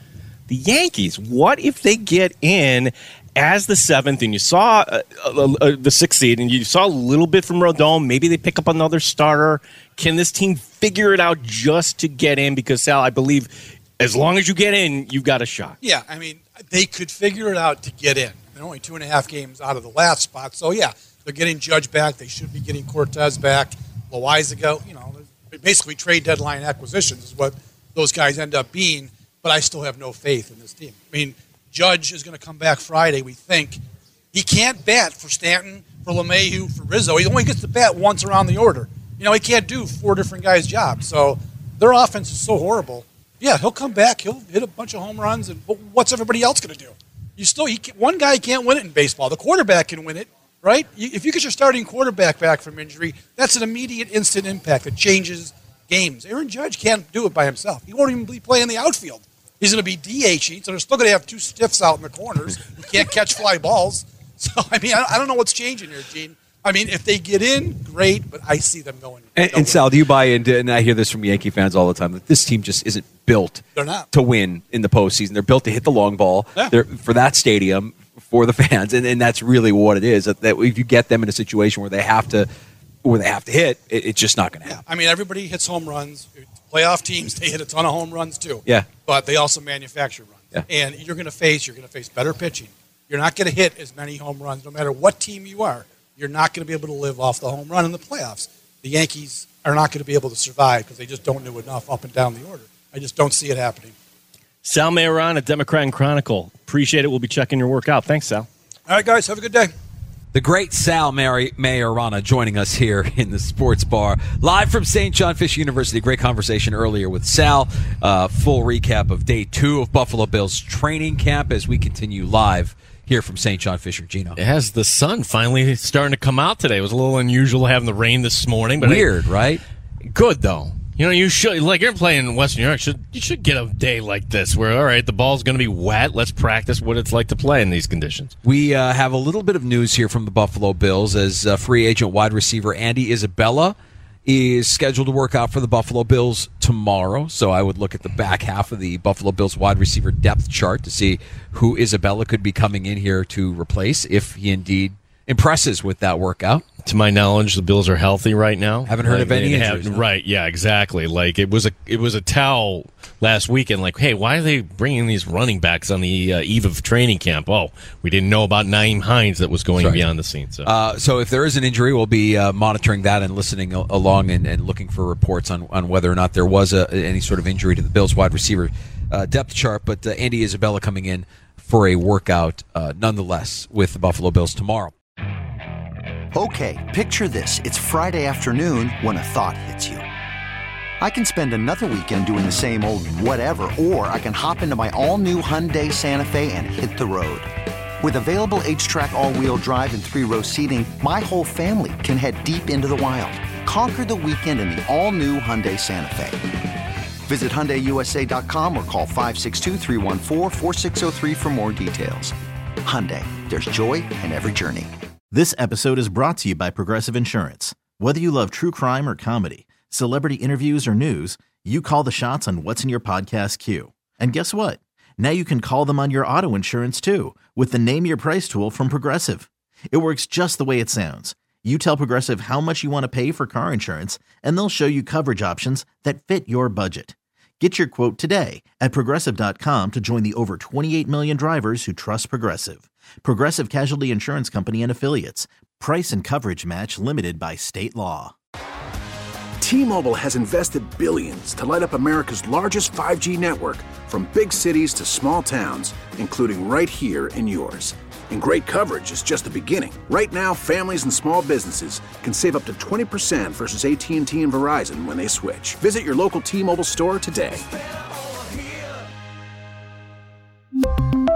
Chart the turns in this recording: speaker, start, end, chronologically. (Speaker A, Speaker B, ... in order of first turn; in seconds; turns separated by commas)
Speaker A: 0.5-13.5, Speaker A: 14.0-15.8, Speaker B: 15.8-33.8, Speaker B: 34.3-69.9, Speaker C: 69.4-82.5, Speaker B: 73.8-74.1, Speaker C: 83.0-84.8, Speaker B: 84.7-103.9, Speaker A: 104.6-108.5, Speaker B: 108.9-109.7, Speaker C: 110.3-124.4, Speaker A: 124.4-129.1, Speaker C: 128.8-129.6, Speaker A: 130.1-138.3, Speaker C: 138.4-156.7, Speaker A: 156.8-170.7, Speaker C: 158.9-160.0, Speaker C: 169.8-170.0, Speaker C: 170.7-184.9, Speaker D: 186.3-190.1, Speaker D: 191.0-197.5, Speaker D: 198.0-206.4, Speaker D: 207.3-214.9, Speaker E: 215.3-248.3, Speaker F: 249.6-267.7